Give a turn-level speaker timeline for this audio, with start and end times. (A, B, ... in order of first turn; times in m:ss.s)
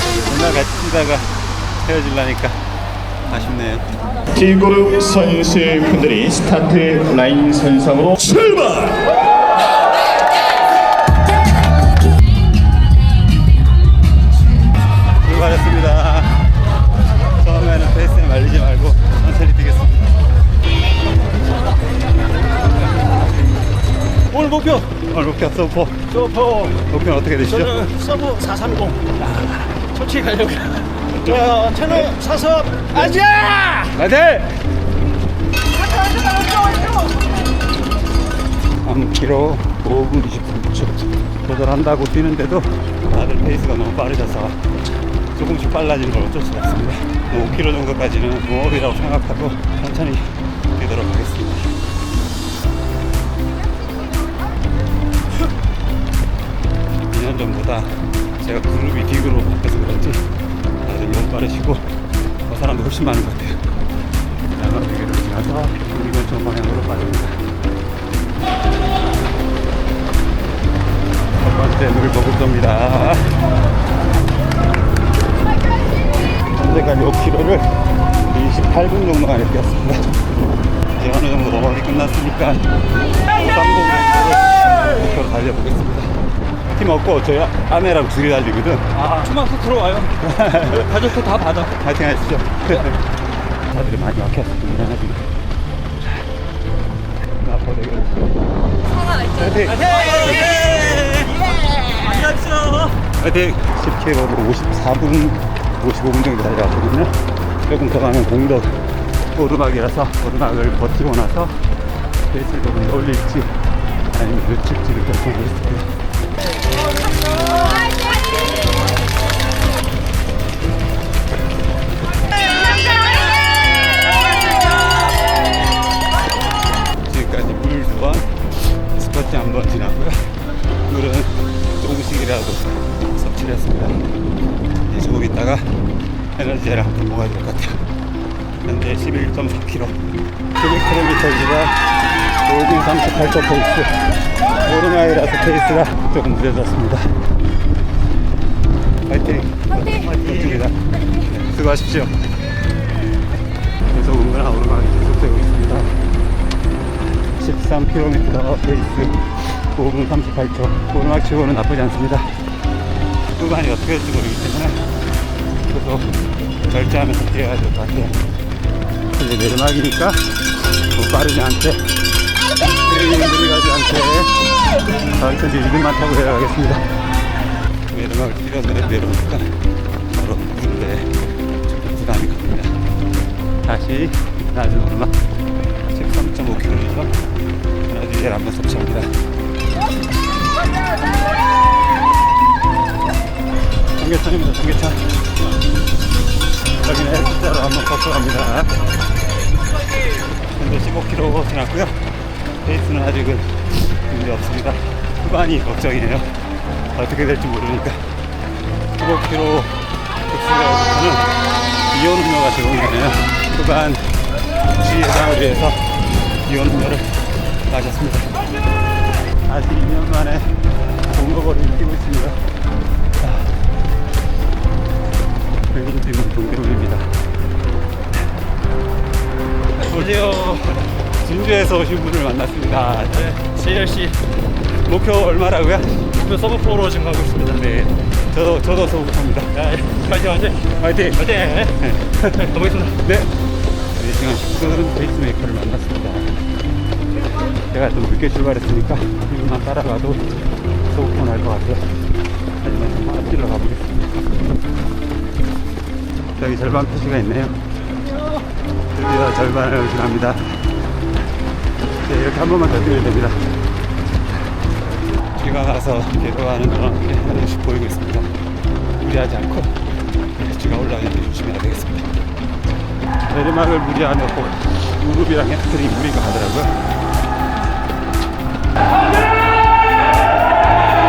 0:00.2-0:01.3 A
0:01.8-0:02.6 A
0:03.3-0:04.0 A
0:04.3-0:09.0 B
0:15.2-0:16.5 A
0:17.4-0:20.1 A
0:24.3-0:24.8 C
0:24.7-0:26.1 A
0:26.1-0:26.8 C
0:26.7-0:27.8 A
0:27.5-0:29.2 C
0:29.8-0:34.0 C
0:33.9-0:34.7 A
0:38.8-0:44.6 A
0:45.4-0:51.7 A
0:57.1-1:00.3 A
1:00.8-1:01.9 A
1:02.5-1:03.7 A
1:04.5-1:07.5 A
1:11.4-1:13.4 A
1:16.5-1:20.1 A
1:21.0-1:22.7 A
1:23.3-1:26.2 A
1:26.7-1:29.0 A
1:29.0-1:31.8 C
1:30.2-1:31.0 A
1:31.7-1:33.0 A
1:33.6-1:35.3 A
1:37.4-1:38.3 A
1:39.0-1:41.3 A
1:39.9-1:42.7 C
1:42.4-1:51.6 A
1:52.2-1:56.0 A
2:07.0-2:14.1 A
2:14.8-2:15.8 A
2:16.3-2:17.8 A
2:18.6-2:20.0 A
2:20.6-2:21.9 A
2:22.4-2:27.2 A
2:29.1-2:32.2 A
2:33.9-2:36.0 A
2:37.3-2:42.4 A
2:43.3-2:44.8 A
2:45.6-2:48.2 A
2:49.1-2:50.3 A
2:50.9-2:51.9 A
2:52.7-2:54.4 A
2:55.1-2:56.9 A
2:57.9-2:59.6 A
3:00.1-3:02.8 A
3:03.6-3:05.2 A
3:05.9-3:07.2 A
3:07.8-3:09.2 A
3:14.0-3:15.2 A
3:16.8-3:18.8 A
3:20.4-3:22.0 A
3:22.6-3:26.3 A
3:26.9-3:28.1 A
3:29.0-3:31.4 A
3:31.9-3:34.1 A
3:34.7-3:38.4 A
3:39.4-3:42.4 A
3:45.7-3:47.2 A
3:49.8-3:50.8 C
3:51.1-3:53.4 A
3:53.1-3:54.2 C
3:54.8-3:56.2 A
3:56.1-3:57.7 C
3:57.6-3:59.5 A
3:59.5-4:03.0 C
4:00.7-4:03.4 A
4:03.9-4:06.4 A
4:07.6-4:12.1 A
4:12.6-4:14.2 A
4:16.4-4:17.6 A
4:18.9-4:20.6 A
4:22.0-4:23.5 A
4:25.3-4:28.3 A
4:29.0-4:32.1 A
4:33.2-4:36.8 A